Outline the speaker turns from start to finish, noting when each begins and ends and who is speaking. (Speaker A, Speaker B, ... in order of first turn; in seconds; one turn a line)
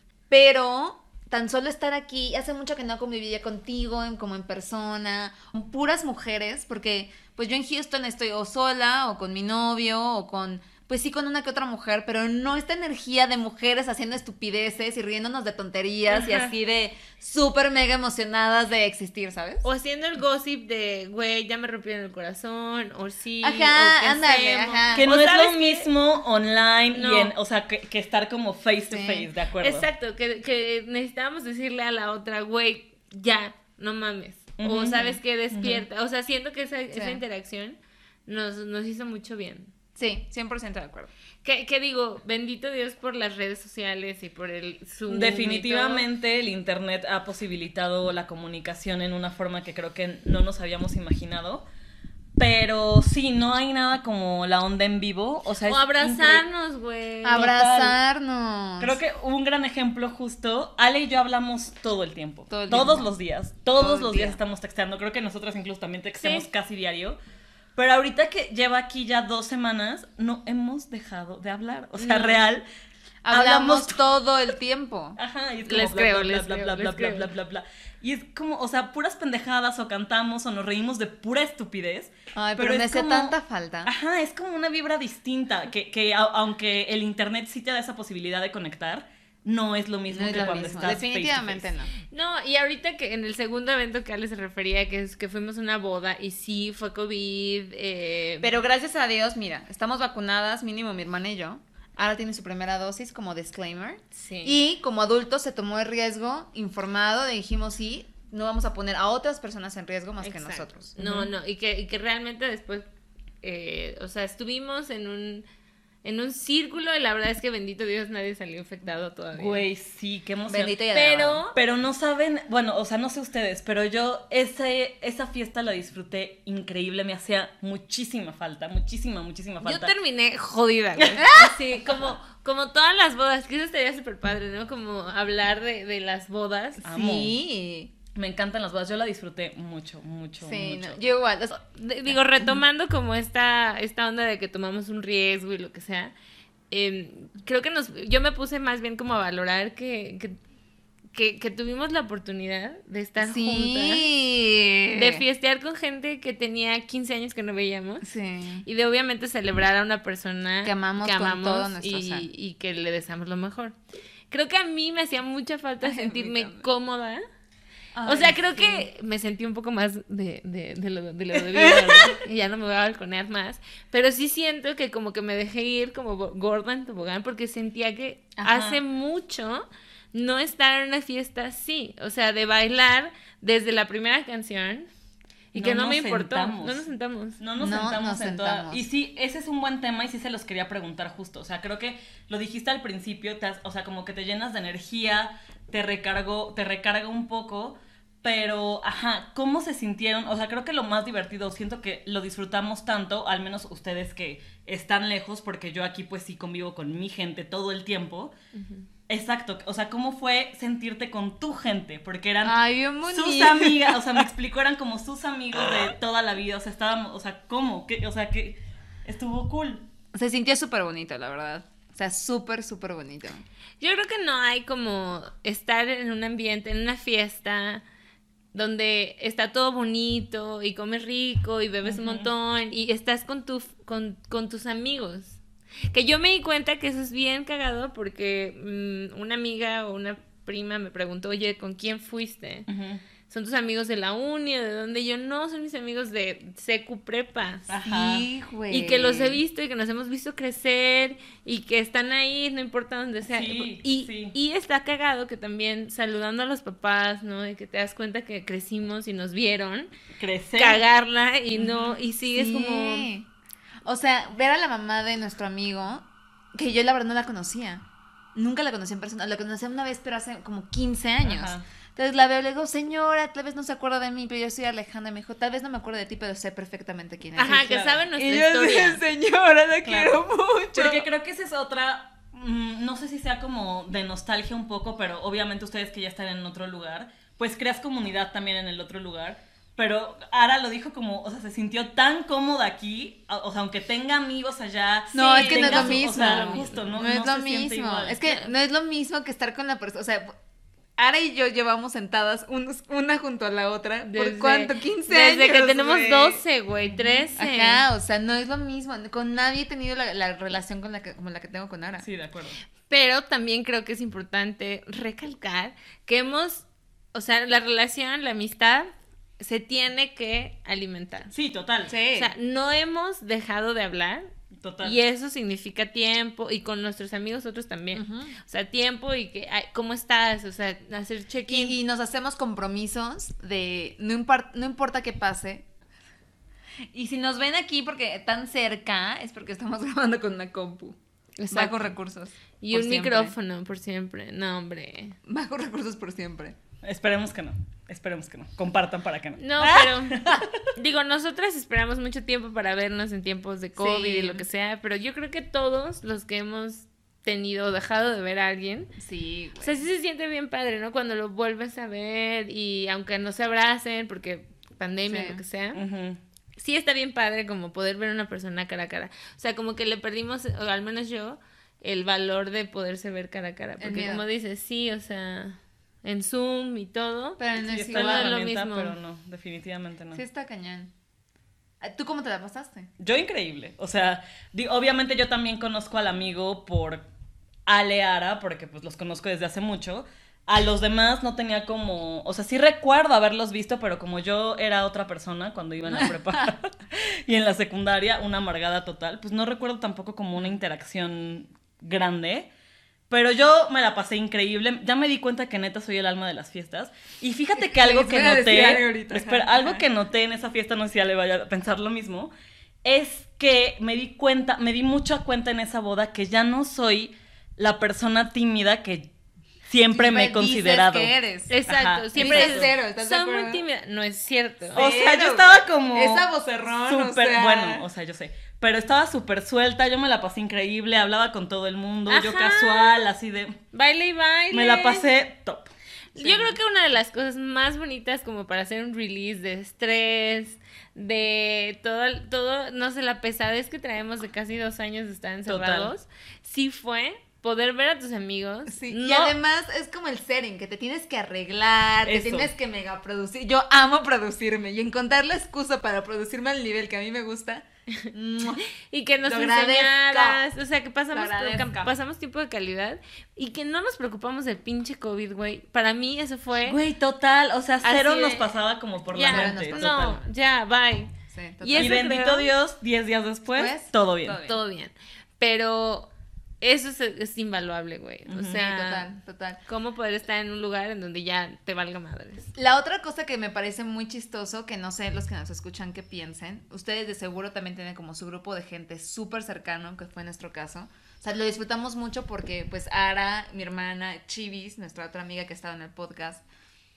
Speaker A: 0.3-19.6
Speaker B: 16.1-16.5
Speaker B: 19.6-25.9
Speaker A: 23.4-25.1
Speaker C: 24.9-29.9
Speaker B: 26.9-27.3
Speaker A: 28.9-29.3
Speaker B: 29.6-39.7
Speaker C: 34.6-35.9
Speaker A: 36.9-37.2
Speaker A: 40.0-41.1
Speaker B: 41.4-46.0
Speaker C: 45.1-51.6
Speaker C: 52.4-56.4
Speaker B: 55.7-57.7
Speaker A: 57.2-59.0
Speaker C: 57.4-57.9
Speaker C: 58.8-67.2
Speaker A: 62.5-63.1
Speaker A: 63.8-64.4
Speaker B: 66.2-66.5
Speaker C: 67.8-72.6
Speaker A: 72.0-72.4
Speaker A: 73.2-75.2
Speaker C: 73.3-74.0
Speaker C: 75.2-91.7
Speaker B: 75.7-77.3
Speaker A: 82.3-83.9
Speaker A: 90.1-91.9
Speaker B: 92.1-98.5
Speaker A: 98.4-110.9
Speaker B: 104.2-104.6
Speaker B: 110.2-112.9
Speaker C: 111.0-111.3
Speaker B: 113.4-115.5
Speaker B: 116.0-119.6
Speaker C: 119.3-120.8
Speaker A: 120.5-121.5
Speaker B: 120.9-121.6
Speaker C: 121.5-129.9
Speaker B: 129.6-136.8
Speaker A: 131.2-131.6
Speaker C: 136.8-137.4
Speaker A: 136.8-137.9
Speaker C: 138.2-141.0
Speaker A: 140.4-142.4
Speaker B: 141.6-146.1
Speaker B: 146.7-150.4
Speaker B: 151.1-154.1
Speaker A: 153.2-155.2
Speaker B: 154.9-158.1
Speaker A: 158.0-158.7
Speaker B: 158.7-163.8
Speaker A: 160.6-162.3
Speaker B: 164.3-167.2
Speaker A: 165.8-166.7
Speaker A: 167.9-168.9
Speaker B: 168.1-184.9
Speaker A: 171.6-172.1
Speaker A: 178.4-178.8
Speaker B: 185.5-187.4
Speaker C: 185.5-186.9
Speaker C: 187.4-208.3
Speaker A: 187.6-188.8
Speaker C: 209.1-219.9
Speaker A: 212.4-214.0
Speaker A: 220.1-223.4
Speaker B: 223.8-227.8
Speaker B: 228.5-235.4
Speaker C: 231.8-232.3
Speaker B: 235.9-242.7
Speaker C: 242.7-243.0
Speaker B: 243.3-247.7
Speaker C: 247.7-248.3
Speaker A: 247.8-249.4
Speaker B: 248.7-259.9
Speaker C: 253.3-254.3
Speaker C: 260.2-260.9
Speaker B: 260.6-263.1
Speaker C: 261.5-262.0
Speaker A: 262.3-263.3
Speaker A: 263.9-267.8
Speaker A: 268.4-277.6
Speaker C: 271.2-271.6
Speaker B: 277.4-279.0
Speaker C: 277.4-278.1
Speaker A: 278.1-281.0
Speaker C: 279.9-280.2
Speaker C: 280.8-298.2
Speaker A: 295.1-300.3
Speaker B: 295.2-296.8
Speaker A: 301.0-312.1
Speaker B: 304.0-307.8
Speaker C: 312.0-312.6
Speaker B: 312.9-321.3
Speaker C: 321.3-321.9
Speaker A: 321.9-322.3
Speaker B: 322.1-324.3
Speaker C: 324.6-325.0
Speaker B: 324.8-331.8
Speaker A: 327.9-328.4
Speaker A: 331.5-335.7
Speaker A: 336.9-341.0
Speaker B: 341.4-341.9
Speaker A: 341.5-343.4
Speaker B: 342.6-345.2
Speaker A: 345.3-346.6
Speaker C: 346.8-350.5
Speaker B: 349.4-358.9
Speaker A: 353.8-354.4
Speaker A: 359.0-359.8
Speaker B: 359.6-365.8
Speaker A: 365.1-365.4
Speaker C: 365.7-366.2
Speaker B: 366.6-379.0
Speaker A: 373.8-374.2
Speaker A: 377.4-378.4
Speaker C: 377.6-380.2
Speaker A: 380.1-380.9
Speaker A: 381.8-382.9
Speaker C: 383.0-387.1
Speaker C: 387.7-402.5
Speaker A: 395.9-396.4
Speaker C: 403.1-412.3
Speaker A: 407.6-409.9
Speaker C: 412.8-419.1
Speaker C: 419.7-421.1
Speaker A: 419.9-421.6
Speaker B: 421.5-424.8
Speaker C: 421.7-422.7
Speaker A: 422.1-423.6
Speaker A: 424.7-427.9
Speaker C: 424.7-433.6
Speaker B: 432.1-433.0
Speaker B: 433.7-435.1
Speaker C: 434.5-436.6
Speaker B: 436.2-449.4
Speaker C: 445.5-445.9
Speaker A: 448.7-458.6
Speaker C: 452.1-452.5
Speaker B: 458.8-466.8
Speaker A: 459.2-460.4
Speaker A: 461.1-461.9
Speaker C: 466.6-470.2
Speaker B: 467.8-468.5
Speaker B: 469.1-472.5
Speaker A: 469.1-470.1
Speaker A: 471.3-472.0
Speaker C: 471.8-474.4
Speaker A: 473.5-474.6
Speaker B: 474.4-479.1
Speaker C: 478.3-478.6
Speaker A: 478.6-479.6
Speaker B: 479.7-482.5
Speaker A: 482.6-496.4